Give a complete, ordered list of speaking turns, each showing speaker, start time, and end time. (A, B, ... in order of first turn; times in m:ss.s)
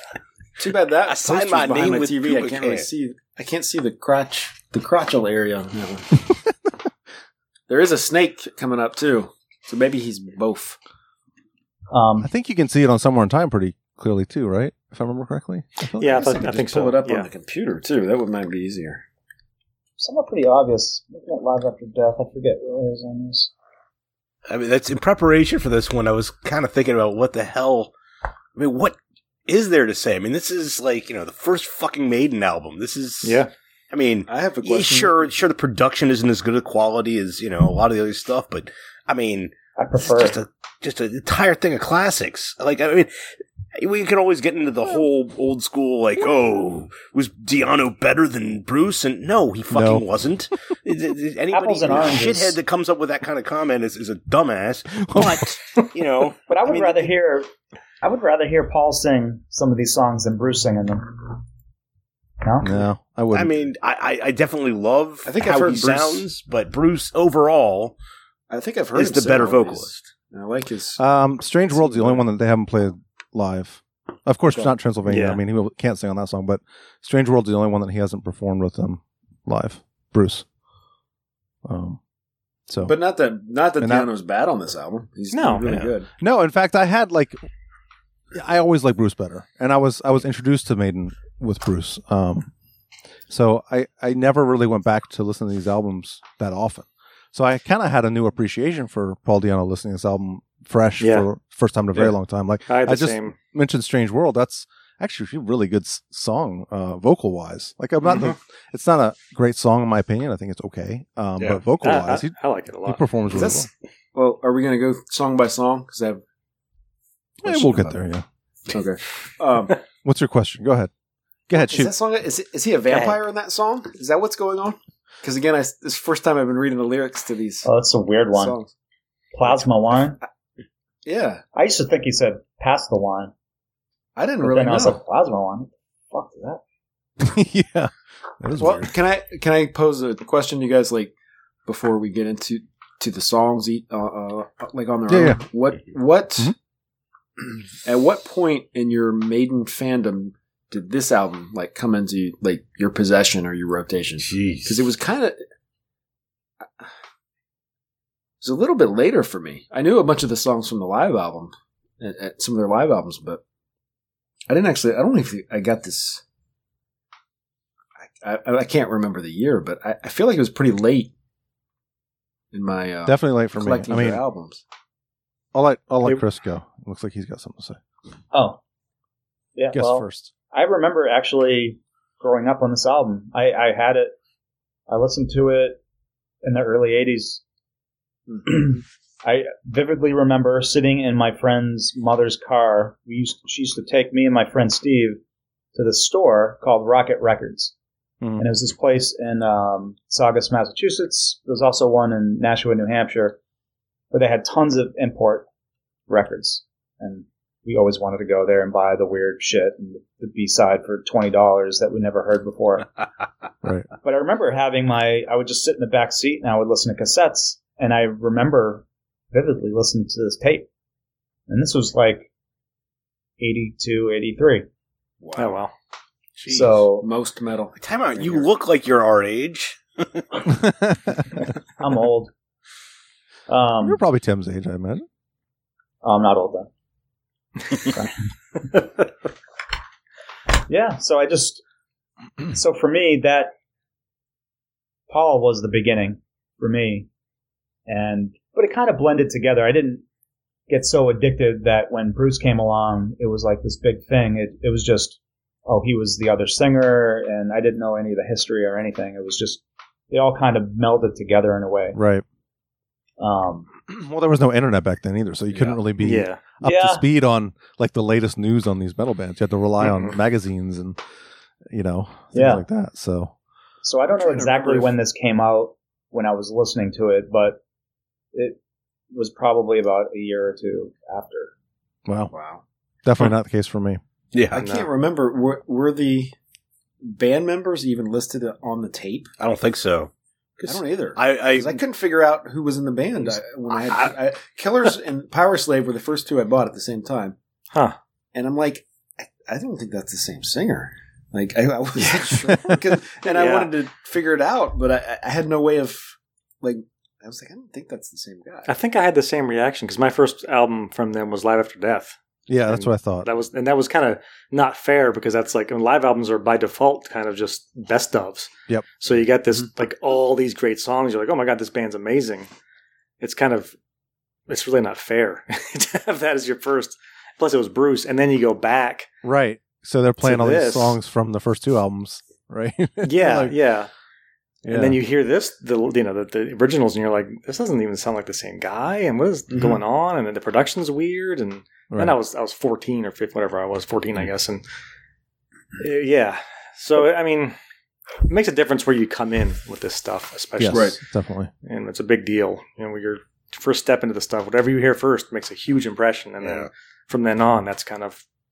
0:00.6-0:06.1 A
0:01.0-0:02.9 B
0:07.7-0:10.8 A
0:11.9-0:12.3 C
0:12.2-0:16.5 D
0:16.0-0:17.3 E
0:16.1-0:19.0 A
0:20.0-0:23.5 C
0:24.5-0:27.9 B
0:28.6-0:43.1 B
0:33.2-0:33.5 E
0:34.3-0:35.3 A
0:39.8-0:40.4 C
0:43.8-0:57.1 B
0:49.7-0:50.0 D
0:51.5-0:52.6 C
0:55.0-0:55.8 D
0:56.5-0:57.5 C
0:58.0-1:01.4 C
1:02.4-1:02.8 C
1:02.6-1:03.6 D
1:03.3-1:08.0 B
1:05.2-1:06.2 A
1:08.5-1:11.0 A
1:08.9-1:09.9 B
1:11.0-1:20.4 D
1:11.7-1:12.3 A
1:14.5-1:14.8 A
1:15.0-1:15.4 E
1:21.6-1:22.0 D
1:22.7-1:23.0 D
1:22.8-1:26.1 A
1:23.8-1:24.1 D
1:25.3-1:25.8 E
1:26.2-1:27.4 D
1:28.4-1:32.5 D
1:33.3-1:53.7 D
1:41.0-1:41.3 E
1:42.7-1:43.4 E
1:51.8-1:53.0 E
1:53.3-1:56.2 A
1:57.4-1:58.2 D
1:57.4-1:58.0 A
1:58.7-1:59.8 A
2:00.0-2:00.9 D
2:01.5-2:01.9 D
2:01.5-2:07.7 A
2:02.9-2:03.2 E
2:07.6-2:08.6 C
2:08.3-2:08.7 A
2:09.3-2:10.2 C
2:11.0-2:11.4 A
2:11.5-2:13.3 C
2:14.2-2:15.0 A
2:14.4-2:16.6 C
2:17.2-2:18.9 D
2:18.5-2:21.1 A
2:21.6-2:26.5 A
2:25.1-2:25.4 D
2:27.8-2:35.4 A
2:34.3-2:34.8 B
2:38.4-2:43.4 A
2:44.5-2:46.2 A
2:48.2-2:51.1 A
2:52.5-2:54.6 A
2:53.0-2:54.2 D
2:55.5-2:57.8 D
2:58.3-2:58.6 C
2:59.6-3:04.1 C
2:59.7-3:00.3 D
3:04.9-3:05.8 C
3:06.4-3:07.4 C
3:08.4-3:15.2 C
3:15.7-3:17.7 C
3:18.4-3:23.4 C
3:24.1-3:25.4 C
3:26.1-3:32.9 C
3:34.0-3:40.7 C
3:41.5-3:42.3 C
3:43.4-3:44.7 C
3:45.2-3:45.6 A
3:45.4-3:45.7 E
3:46.4-3:46.8 B
3:46.5-3:47.1 C
3:47.0-3:48.5 A
3:47.8-3:50.2 B
3:50.5-3:51.2 D
3:51.8-3:52.3 C
3:53.5-3:54.0 C
3:53.8-3:55.0 D
3:56.0-3:56.7 C
3:57.8-3:58.1 C
4:00.7-4:01.6 C
4:02.5-4:03.5 C
4:05.1-4:07.1 C
4:07.9-4:10.0 C
4:10.7-4:22.0 C
4:21.9-4:22.2 D
4:23.2-4:23.7 C
4:23.9-4:31.0 D
4:25.5-4:25.8 A
4:26.0-4:26.4 E
4:26.6-4:27.0 C
4:29.8-4:30.2 E
4:31.7-4:33.3 D
4:32.3-4:32.6 C
4:33.8-4:37.6 C
4:34.4-4:34.8 E
4:39.1-4:41.5 C
4:42.0-4:42.3 D
4:42.3-4:42.6 A
4:43.0-4:44.0 D
4:44.3-4:44.6 B
4:44.5-4:46.3 A
4:44.6-4:44.9 E
4:47.0-4:49.3 A
4:49.4-4:51.8 B
4:50.6-4:57.4 A
4:58.3-5:08.7 A
5:02.5-5:02.8 D
5:03.3-5:03.7 E
5:08.6-5:22.5 E
5:12.5-5:13.3 D
5:23.2-5:23.7 E
5:24.5-5:29.1 E
5:29.2-5:33.6 D
5:30.2-5:31.0 E
5:33.0-5:33.9 E
5:34.6-5:35.0 D
5:34.6-5:44.6 E
5:39.5-5:39.8 A
5:41.9-5:42.2 D
5:45.8-5:47.6 E
5:48.2-5:51.0 E
5:50.6-5:51.5 D
5:50.7-5:51.0 A
5:51.6-5:58.2 E
5:56.4-5:56.7 B